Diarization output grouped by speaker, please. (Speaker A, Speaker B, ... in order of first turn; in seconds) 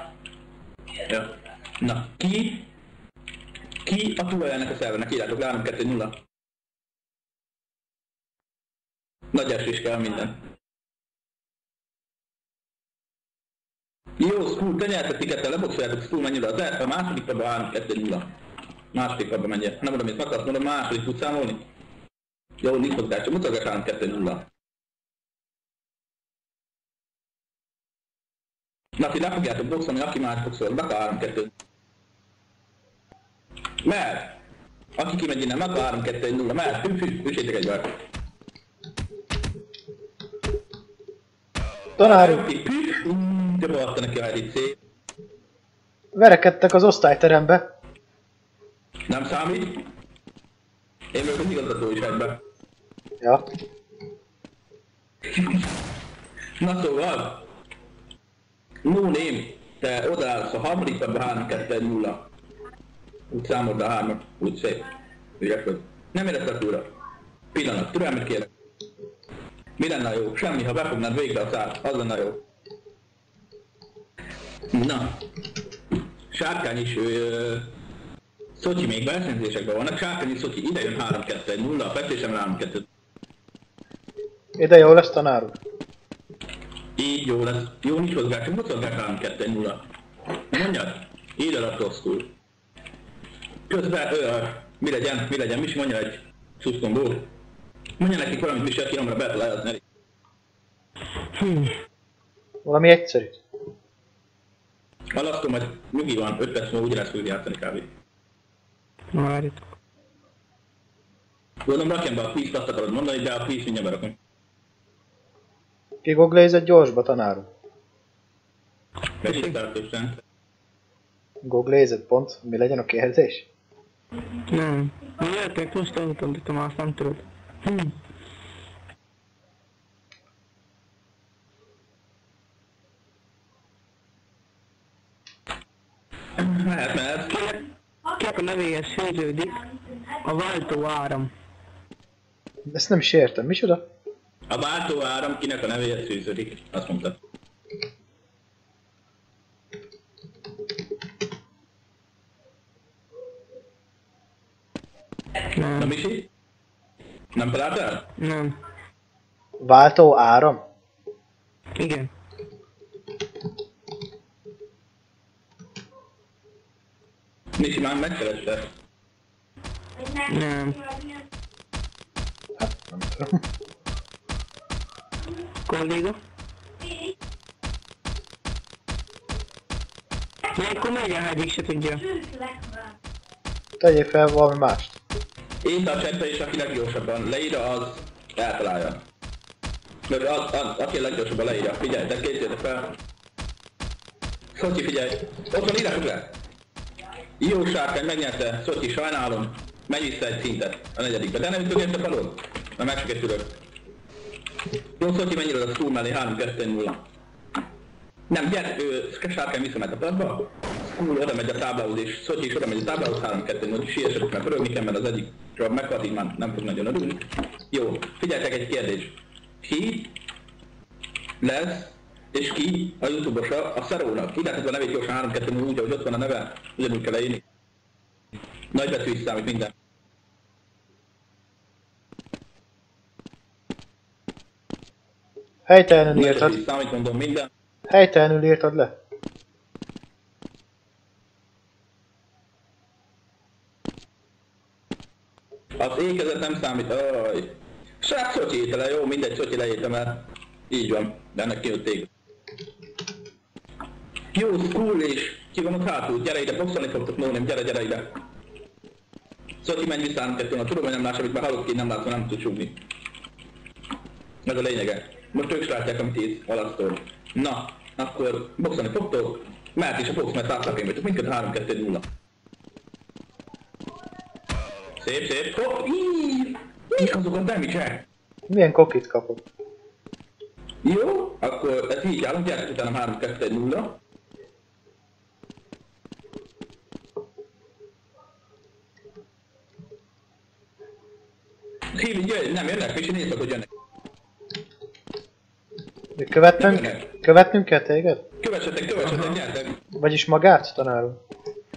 Speaker A: 1.1-2.7, 3.8-6.2, 9.3-10.3, 14.2-18.3, 18.9-21.6, 22.6-24.5, 29.0-31.5, 33.8-34.4, 35.0-37.9, 42.0-44.7, 49.1-49.9, 51.1-52.4, 55.4-55.6, 56.6-57.5, 58.8-62.3, 63.3-64.9, 65.4-66.9, 67.5-68.5, 69.8-72.4, 74.7-75.2, 76.3-77.7, 78.5-82.8, 87.0-89.9, 90.5-92.3, 93.7-97.3, 98.0-99.8, 105.1-107.9, 111.7-114.2, 119.2-120.2, 136.4-137.4, 144.5-147.2, 155.8-156.3, 157.3-158.1, 167.6-168.7, 185.6-189.0, 190.1-193.0, 194.5-196.3, 197.4-203.6, 205.0-207.1, 208.3-220.2, 221.4-227.4, 228.7-229.7, 236.1-237.5, 245.8-252.1, 254.3-258.2, 259.6-262.8, 264.4-272.1, 275.0-278.1, 280.8-284.0, 291.9-293.7, 296.6-297.1, 298.4-299.8
Speaker B: 42.0-42.4, 46.1-47.7, 84.6-85.6, 102.6-103.4, 116.0-117.5, 121.4-123.5, 142.7-143.8, 159.6-160.6, 172.6-173.4, 183.8-185.0, 235.7-236.6, 237.9-238.9, 278.5-279.4, 296.1-298.2, 299.9-301.2
Speaker C: 101.4-101.7, 109.1-109.6, 124.5-127.9, 137.3-137.6, 138.2-139.6, 140.2-141.3, 155.6-155.8, 158.2-158.6, 161.8-162.1, 170.2-170.8, 175.7-176.2, 180.5-182.1